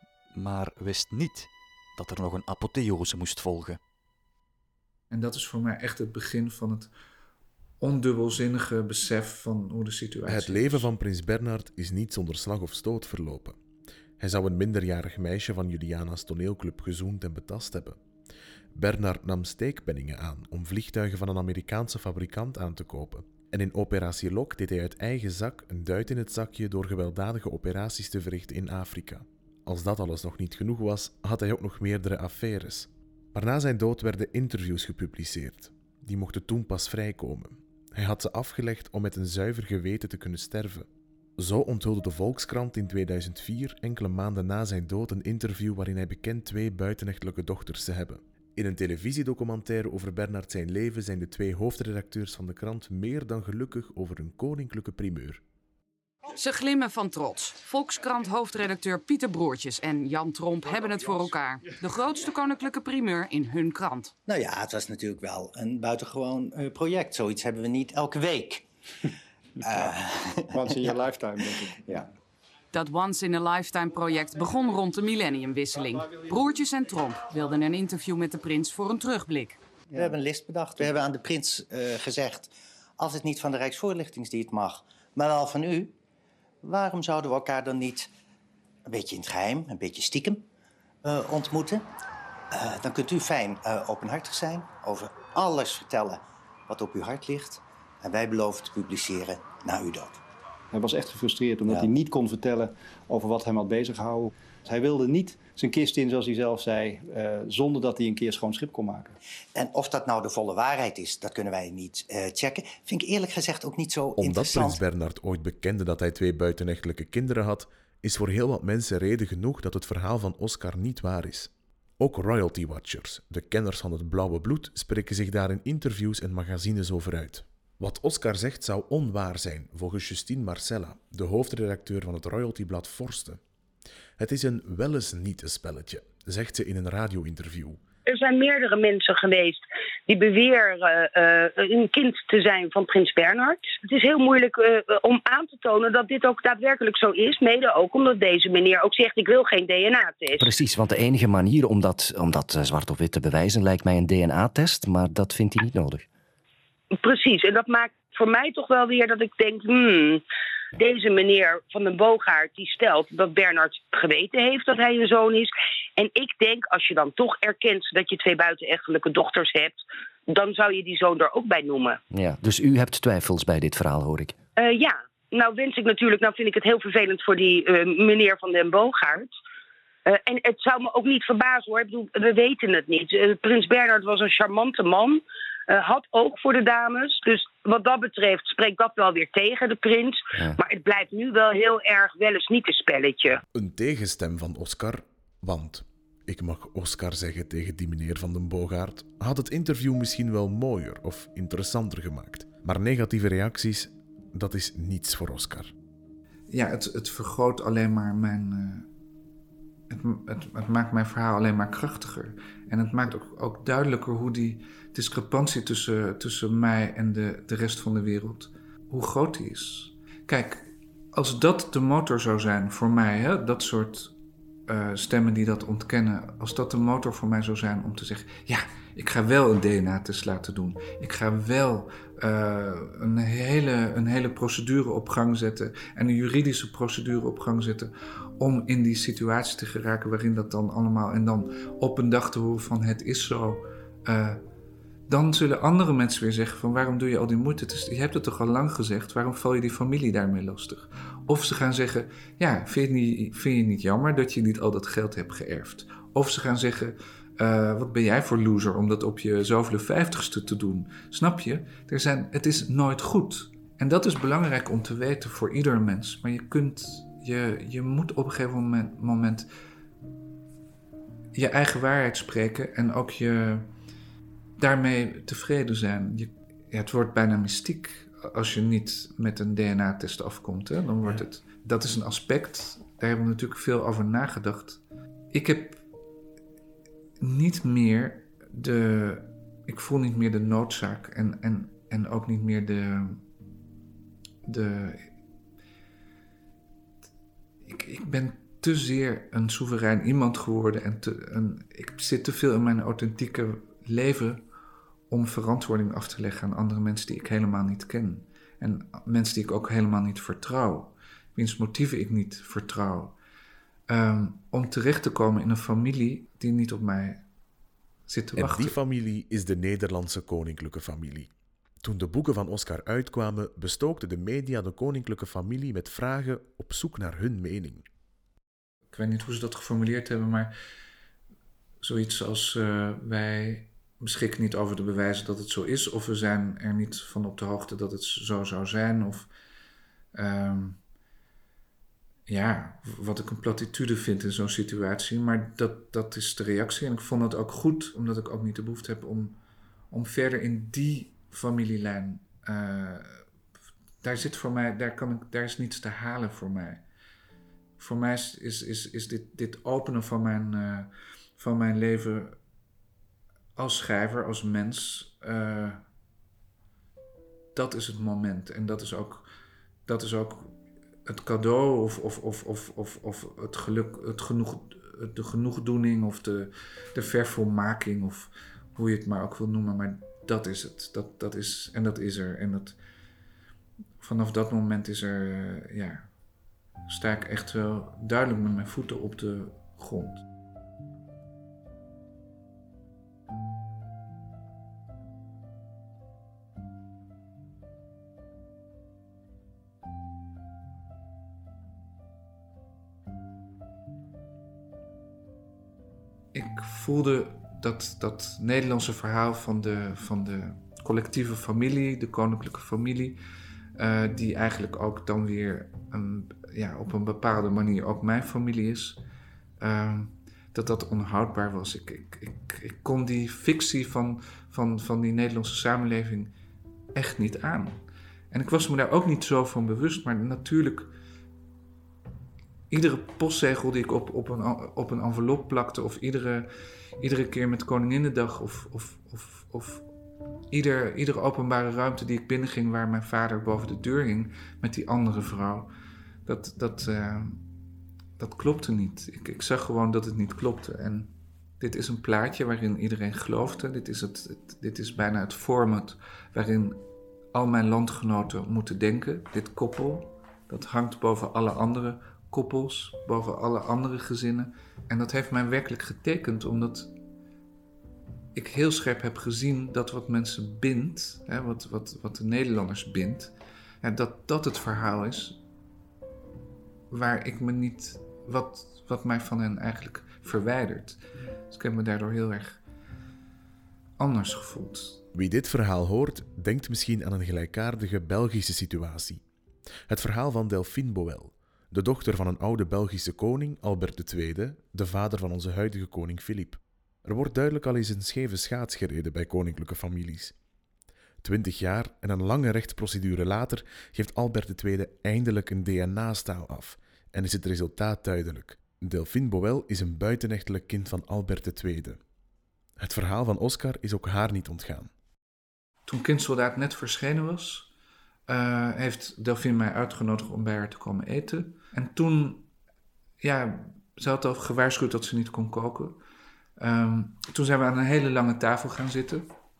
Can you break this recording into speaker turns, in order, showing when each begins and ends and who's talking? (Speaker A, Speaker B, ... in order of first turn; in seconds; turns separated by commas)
Speaker A: 0.3-3.8, Speaker B: 5.1-6.9, Speaker B: 7.8-10.9, Speaker C: 10.3-13.6, Speaker C: 14.2-18.0, Speaker C: 18.7-55.4, Speaker D: 56.3-64.1, Speaker E: 64.3-68.7, Speaker E: 69.6-71.0, Speaker F: 70.5-72.1, Speaker D: 72.7-79.6, Speaker E: 80.0-85.9, Speaker E: 86.6-88.1, Speaker E: 88.8-90.5, Speaker E: 91.0-91.9, Speaker E: 92.5-100.2, Speaker F: 100.7-109.2, Speaker E: 109.5-114.8, Speaker C: 114.2-133.4, Speaker C: 134.2-137.8, Speaker G: 138.1-150.5, Speaker H: 150.4-156.1, Speaker G: 157.0-160.2, Speaker G: 160.8-172.0, Speaker H: 172.1-174.3, Speaker G: 174.6-179.3, Speaker G: 180.1-193.4, Speaker C: 193.5-205.7, Speaker B: 206.5-208.9, Speaker B: 209.9-224.1, Speaker B: 224.7-244.4, Speaker B: 245.1-269.5, Speaker B: 271.3-273.7, Speaker B: 274.6-285.8, Speaker B: 287.2-293.2, Speaker B: 294.4-295.1, Speaker B: 297.6-304.4, Speaker B: 305.1-313.1, Speaker B: 313.9-317.2, Speaker B: 318.1-318.8, Speaker C: 318.4-321.3, Speaker C: 321.8-327.8, Speaker B: 328.9-330.5, Speaker B: 331.8-339.3, Speaker B: 340.1-340.8, Speaker B: 342.3-349.4, Speaker B: 349.9-353.2, Speaker B: 354.0-356.8, Speaker B: 357.8-362.4, Speaker B: 363.6-365.8, Speaker B: 367.5-369.3, Speaker B: 369.9-382.8, Speaker B: 384.0-386.1, Speaker B: 386.9-390.2, Speaker B: 406.3-413.2, Speaker B: 413.8-419.0, Speaker B: 419.6-426.3, Speaker B: 426.9-430.9, Speaker B: 432.7-439.9, Speaker B: 440.5-445.7, Speaker B: 446.2-447.4, Speaker B: 448.2-466.9, Speaker B: 468.3-475.4, Speaker B: 476.9-482.6, Speaker B: 484.0-485.0, Speaker C: 485.1-489.2, Speaker C: 489.9-500.3, Speaker C: 501.2-512.0, Speaker C: 512.8-514.9, Speaker B: 515.9-517.7, Speaker B: 518.3-522.5, Speaker B: 523.2-526.0, Speaker B: 526.6-529.3